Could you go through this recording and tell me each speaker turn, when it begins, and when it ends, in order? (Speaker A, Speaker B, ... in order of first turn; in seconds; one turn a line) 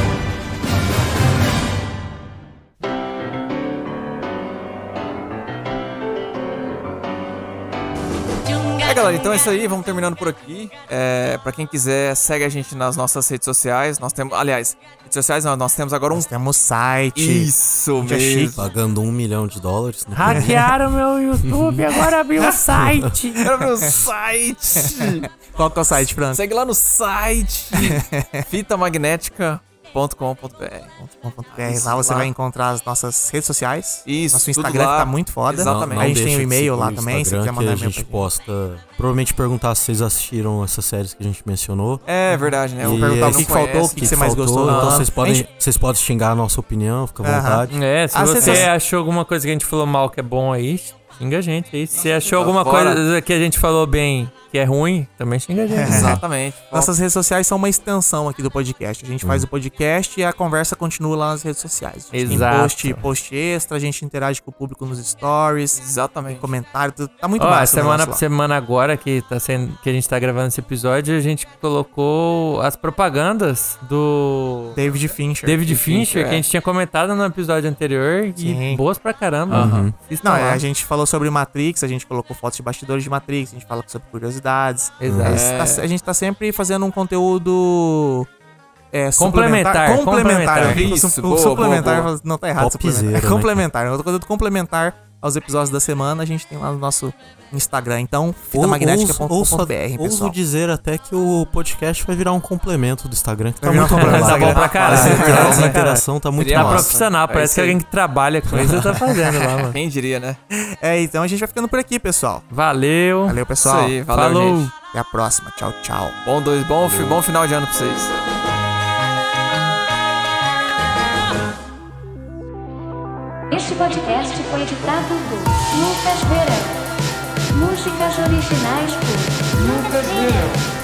Speaker A: 8.8-16.3
Speaker B: 16.1-18.6
Speaker A: 17.1-18.7
Speaker C: 18.5-20.8
Speaker D: 20.1-23.4
Speaker C: 21.4-22.0
Speaker C: 22.7-23.5
Speaker A: 23.4-25.3
Speaker B: 24.8-26.4
Speaker A: 25.9-30.9
Speaker B: 27.7-28.4
Speaker B: 31.0-38.2
Speaker A: 31.5-32.3
Speaker A: 34.0-36.2
Speaker C: 35.6-42.0
Speaker A: 42.0-45.1
Speaker B: 42.3-45.5
Speaker C: 42.8-48.6
Speaker B: 47.2-48.7
Speaker D: 47.7-56.2
Speaker A: 48.4-48.7
Speaker A: 52.3-53.0
Speaker B: 55.7-56.2
Speaker A: 55.9-56.9
Speaker C: 55.9-56.2
Speaker B: 56.7-68.2
Speaker D: 62.1-63.0
Speaker A: 65.8-66.5
Speaker D: 67.4-74.8
Speaker B: 74.7-75.8
Speaker D: 75.4-80.6
Speaker A: 75.7-76.4
Speaker B: 78.4-78.8
Speaker C: 79.5-79.9
Speaker A: 79.5-79.9
Speaker B: 80.2-88.3
Speaker D: 85.0-85.4
Speaker C: 85.0-85.5
Speaker A: 85.3-85.8
Speaker B: 88.9-100.3
Speaker D: 89.2-90.8
Speaker A: 90.5-92.1
Speaker C: 92.6-93.6
Speaker C: 98.5-106.9
Speaker B: 103.6-105.8
Speaker D: 103.8-109.8
Speaker A: 104.4-105.7
Speaker A: 106.4-107.8
Speaker A: 108.5-110.4
Speaker B: 110.5-112.5
Speaker D: 112.5-113.4
Speaker B: 113.2-114.0
Speaker A: 113.6-114.7
Speaker D: 114.1-114.7
Speaker B: 114.9-116.2
Speaker A: 116.2-118.1
Speaker C: 116.8-117.2
Speaker E: 123.5-126.8
Speaker E: 127.5-130.6